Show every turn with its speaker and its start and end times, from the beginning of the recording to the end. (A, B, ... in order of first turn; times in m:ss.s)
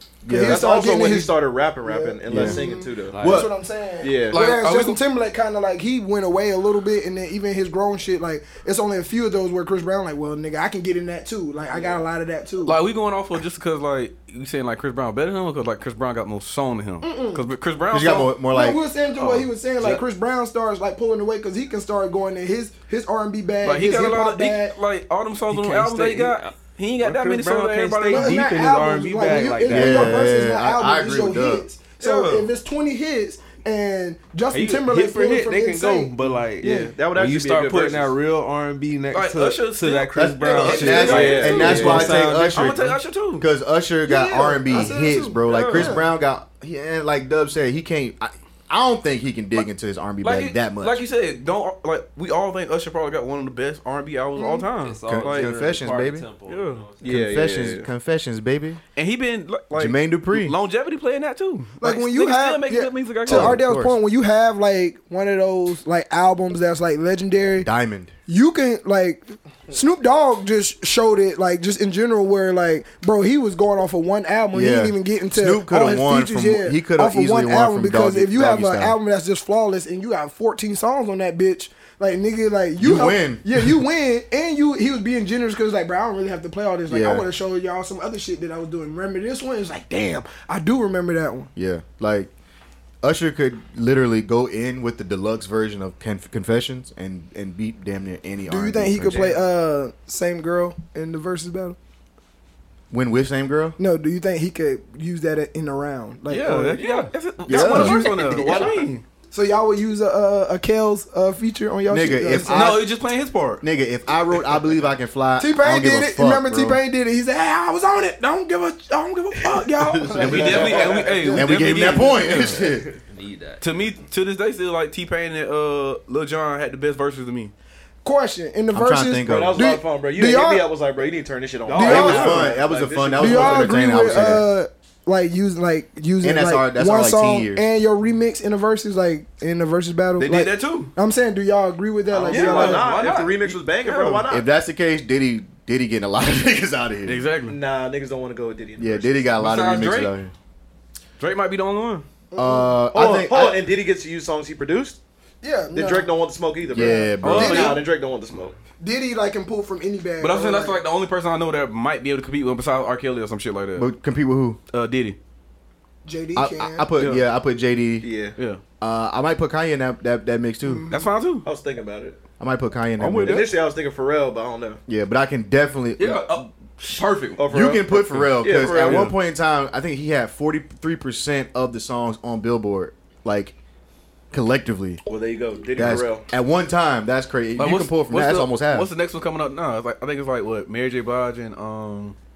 0:00.2-0:00.6 A
0:00.3-0:03.4 B
0:00.3-0:12.8 C
0:02.3-0:02.6 A
0:03.1-0:03.5 D
0:03.2-0:03.4 A
0:04.0-0:04.4 B
0:04.3-0:05.0 E
0:11.7-0:12.0 B
0:12.6-0:18.3 E
0:17.0-0:17.4 C
0:17.9-0:18.8 A
0:18.5-0:24.7 C
0:19.2-0:19.9 E
0:23.6-0:28.4 E
0:25.5-0:30.3 D
0:28.1-0:36.9 C
0:29.7-0:31.6 A
0:32.0-0:32.5 E
0:34.5-0:42.9 D
0:36.6-0:38.2 B
0:39.1-0:43.4 E
0:40.1-0:51.0 A
0:41.0-0:42.2 B
0:44.0-0:46.0 C
0:45.4-0:45.9 E
0:50.2-0:55.5 E
0:54.4-0:54.6 C
0:54.8-0:57.3 D
0:55.0-0:56.2 A
0:56.5-0:56.9 E
0:57.0-0:57.9 B
0:57.0-0:58.8 A
0:59.0-1:03.6 E
0:59.7-1:00.6 A
1:01.8-1:07.7 C
1:03.2-1:04.0 A
1:07.6-1:08.1 A
1:08.3-1:31.5 C
1:14.5-1:19.0 A
1:22.8-1:23.8 A
1:26.9-1:27.3 A
1:31.6-1:32.3 A
1:33.0-1:39.3 A
1:38.5-1:41.8 C
1:42.9-1:43.8 A
1:43.8-1:47.0 C
1:46.3-1:49.0 E
1:47.4-1:48.2 A
1:47.5-1:48.6 C
1:48.1-1:48.9 B
1:49.3-1:52.7 C
1:51.9-1:52.9 A
1:52.3-1:53.6 E
1:53.6-1:56.8 A
1:55.4-2:01.9 C
2:00.1-2:02.2 E
2:00.1-2:01.3 B
2:01.3-2:02.9 A
2:02.5-2:02.9 B
2:02.5-2:03.6 D
2:03.6-2:07.5 E
2:08.0-2:10.7 C
2:08.7-2:09.7 A
2:09.2-2:14.4 B
2:11.7-2:12.6 E
2:11.7-2:14.5 A
2:11.8-2:12.3 C
2:13.2-2:22.9 C
2:16.2-2:17.6 A
2:20.2-2:20.9 E
2:22.1-2:24.5 B
2:22.3-2:24.2 E
2:24.3-2:27.2 A
2:27.0-2:27.6 E
2:27.5-2:29.3 B
2:28.8-2:30.3 A
2:29.4-2:30.1 E
2:31.2-2:32.0 E
2:32.3-2:32.7 C
2:32.4-2:33.6 A
2:32.9-2:35.0 B
2:35.4-2:36.1 C
2:35.7-2:38.6 B
2:36.7-2:37.8 A
2:36.8-2:37.8 C
2:37.2-2:37.8 E
2:38.8-2:40.8 C
2:40.2-2:43.9 E
2:43.7-2:44.6 A
2:44.7-2:45.2 E
2:46.0-2:46.9 C
2:46.3-2:48.1 A
2:47.0-2:47.3 B
2:48.0-2:48.3 B
2:48.8-2:50.9 A
2:50.6-2:50.9 C
2:50.9-2:51.4 E
2:51.4-2:52.2 B
2:52.4-2:53.4 A
2:53.0-2:53.5 E
2:53.2-2:54.8 B
2:54.9-2:56.5 A
2:56.0-2:59.2 E
2:57.4-2:59.1 B
2:57.5-3:03.5 A
3:04.3-3:05.0 A
3:05.0-3:06.2 B
3:05.8-3:08.9 A
3:07.6-3:12.2 E